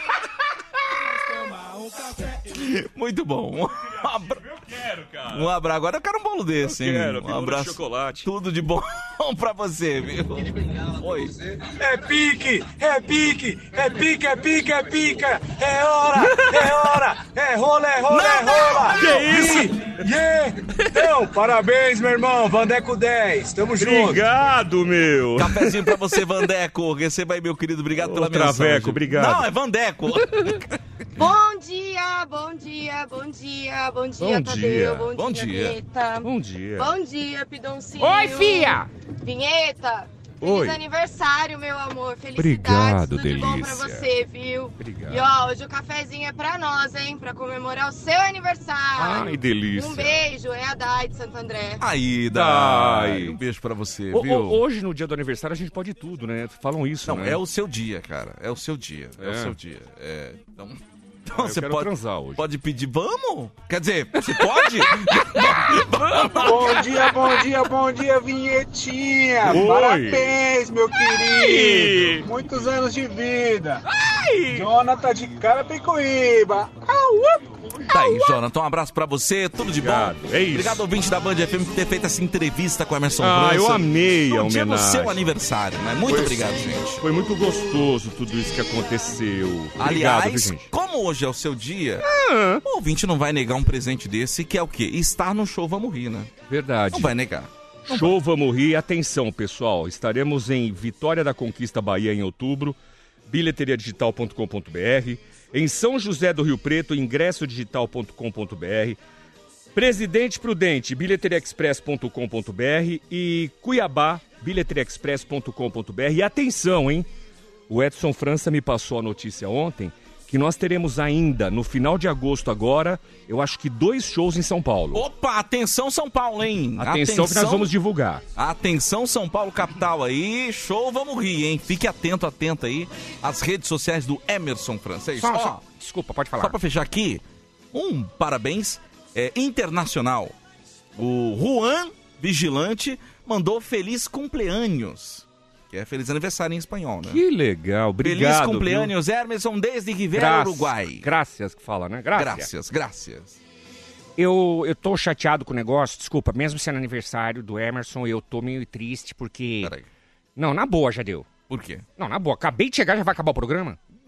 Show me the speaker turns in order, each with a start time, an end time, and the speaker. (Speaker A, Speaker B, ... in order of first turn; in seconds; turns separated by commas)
Speaker A: 2.3-4.6, Speaker B: 4.8-5.5, Speaker A: 5.3-11.4, Speaker B: 6.6-8.3, Speaker C: 11.8-24.3, Speaker A: 18.1-19.2, Speaker B: 19.0-19.9, Speaker B: 23.8-25.9, Speaker A: 25.4-30.6, Speaker B: 28.0-29.5, Speaker B: 30.2-30.6, Speaker D: 31.2-51.8, Speaker B: 34.2-35.1, Speaker A: 35.1-35.8, Speaker B: 36.2-36.9, Speaker E: 38.0-38.9, Speaker B: 38.2-38.8, Speaker B: 40.4-40.8, Speaker B: 42.4-44.1, Speaker B: 44.8-45.2, Speaker B: 49.0-50.2, Speaker A: 51.8-54.6, Speaker B: 52.3-53.4, Speaker B: 54.1-57.4, Speaker A: 57.0-66.9, Speaker B: 59.2-59.5, Speaker B: 61.3-62.4, Speaker B: 64.4-67.0, Speaker C: 66.4-73.8, Speaker B: 69.5-70.3, Speaker B: 71.2-72.2, Speaker B: 74.0-74.7, Speaker C: 74.5-77.0, Speaker A: 77.9-87.0, Speaker B: 79.8-80.8, Speaker B: 83.2-85.2, Speaker B: 86.1-86.4, Speaker B: 87.0-90.7, Speaker A: 89.8-92.0, Speaker B: 92.0-92.6, Speaker A: 92.6-96.3, Speaker B: 96.5-97.1, Speaker A: 96.9-98.1, Speaker B: 97.9-109.0, Speaker B: 109.7-117.1, Speaker B: 117.7-125.0, Speaker A: 124.9-127.7, Speaker B: 126.8-128.2, Speaker A: 128.3-135.6, Speaker B: 135.2-136.5, Speaker E: 135.8-136.5, Speaker A: 136.4-137.2, Speaker A: 137.7-140.3, Speaker A: 140.9-147.2, Speaker B: 147.1-148.9, Speaker A: 148.0-151.1, Speaker B: 150.1-152.5, Speaker A: 152.2-153.4, Speaker E: 154.2-159.6, Speaker A: 159.6-159.9, Speaker B: 160.4-161.2, Speaker E: 160.7-160.9, Speaker A: 161.5-161.9, Speaker E: 162.0-163.7